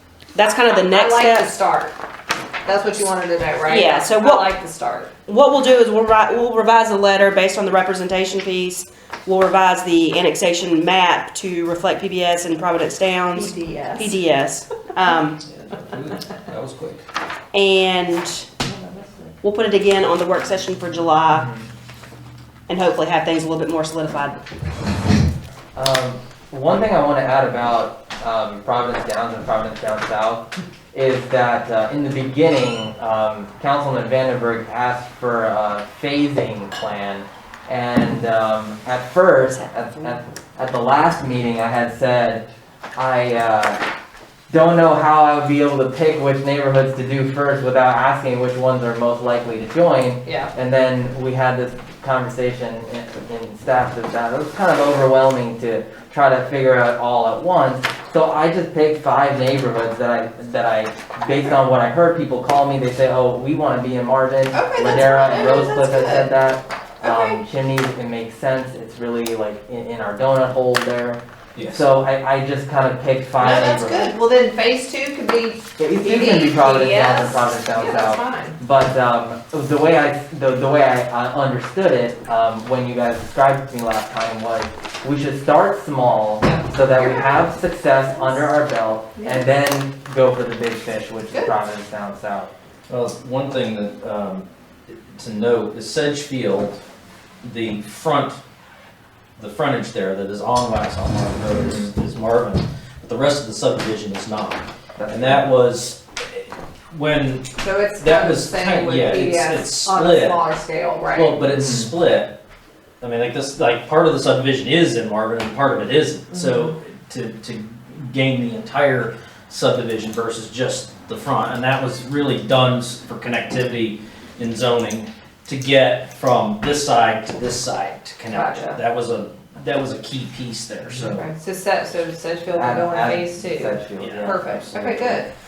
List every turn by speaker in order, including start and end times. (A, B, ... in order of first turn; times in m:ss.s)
0:00.3-0:01.5 A
0:00.7-0:02.0 B
0:02.7-0:05.1 B
0:03.7-0:04.5 A
0:05.3-0:15.4 A
0:13.4-0:14.1 B
0:15.5-0:17.0 C
0:17.5-0:18.5 A
0:18.6-0:19.3 B
0:19.4-0:21.5 A
0:21.3-0:21.7 D
0:22.7-0:24.4 A
0:25.8-0:43.8 D
0:44.5-1:14.1 D
0:50.3-0:50.5 B
1:04.5-1:06.3 B
1:07.0-1:07.4 B
1:11.6-1:11.9 C
1:13.4-1:18.6 B
1:15.8-1:32.5 D
1:26.4-1:27.4 B
1:28.1-1:28.4 B
1:29.2-1:29.5 B
1:32.9-1:36.8 C
1:37.4-1:38.4 C
1:39.4-1:50.4 C
1:41.5-1:41.9 D
1:45.0-1:45.4 D
1:47.6-1:51.4 B
1:51.1-1:52.4 C
1:51.5-1:51.9 D
1:53.0-2:11.2 C
2:08.3-2:08.8 B
2:11.1-2:15.3 B
2:12.5-2:15.2 D
2:14.0-2:15.0 C